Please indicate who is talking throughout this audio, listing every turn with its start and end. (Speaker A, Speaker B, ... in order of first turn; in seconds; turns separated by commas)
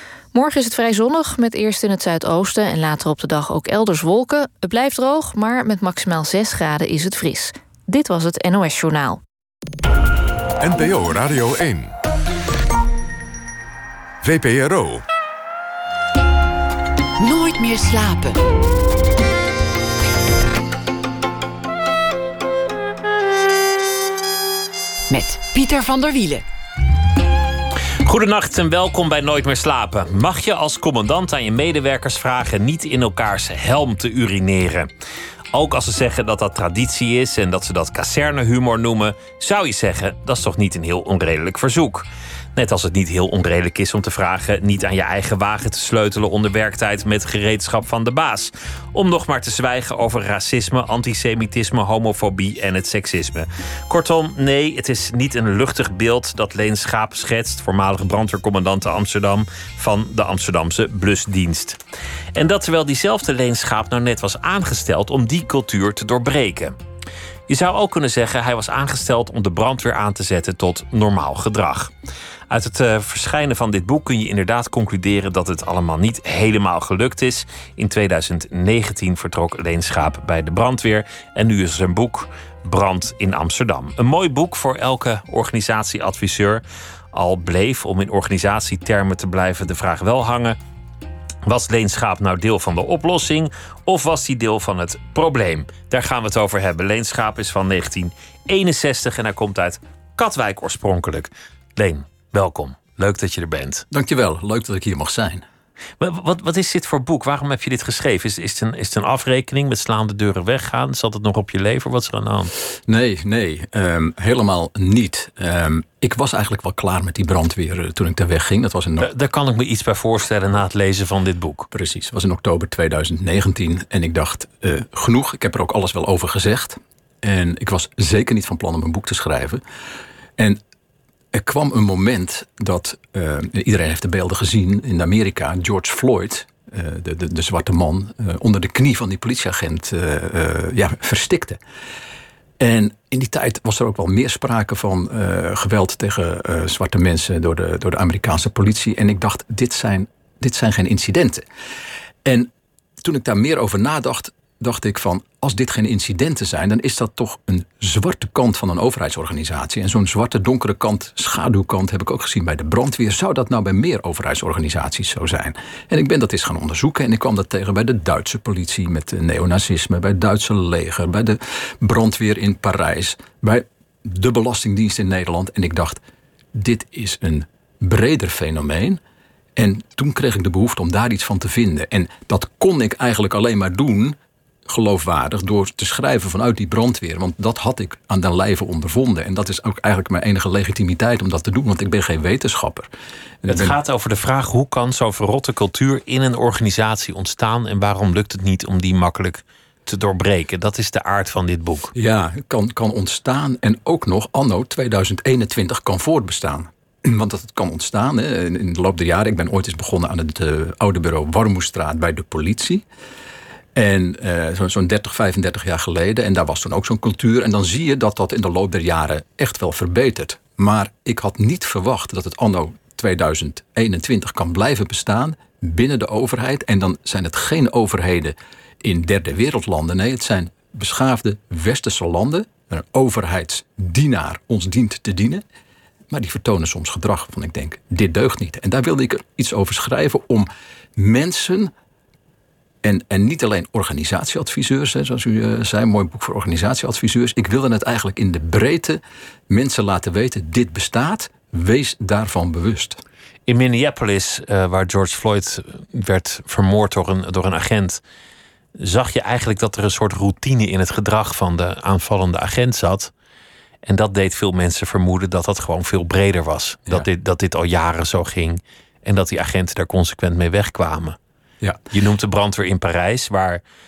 Speaker A: 0.3-9.2, Speaker B: 10.6-11.9, Speaker B: 14.2-15.0, Speaker C: 17.2-18.4, Speaker C: 25.1-26.4, Speaker D: 28.0-34.9, Speaker D: 35.5-61.8, Speaker D: 62.3-66.8, Speaker D: 67.5-71.9, Speaker D: 72.5-90.6, Speaker D: 91.4-103.8, Speaker E: 103.9-105.4, Speaker D: 106.0-112.5, Speaker E: 112.9-119.1, Speaker D: 119.0-121.7, Speaker E: 121.7-129.6, Speaker E: 131.3-141.6, Speaker E: 142.6-151.4, Speaker E: 152.2-152.5, Speaker E: 153.0-176.0, Speaker E: 176.5-179.0, Speaker E: 179.6-192.9, Speaker E: 193.4-193.8, Speaker D: 193.5-201.9, Speaker E: 201.9-212.8, Speaker E: 213.7-235.4, Speaker E: 236.1-241.7, Speaker E: 242.8-253.0, Speaker D: 253.5-258.0, Speaker D: 258.8-263.1, Speaker D: 263.8-271.2, Speaker D: 271.9-273.6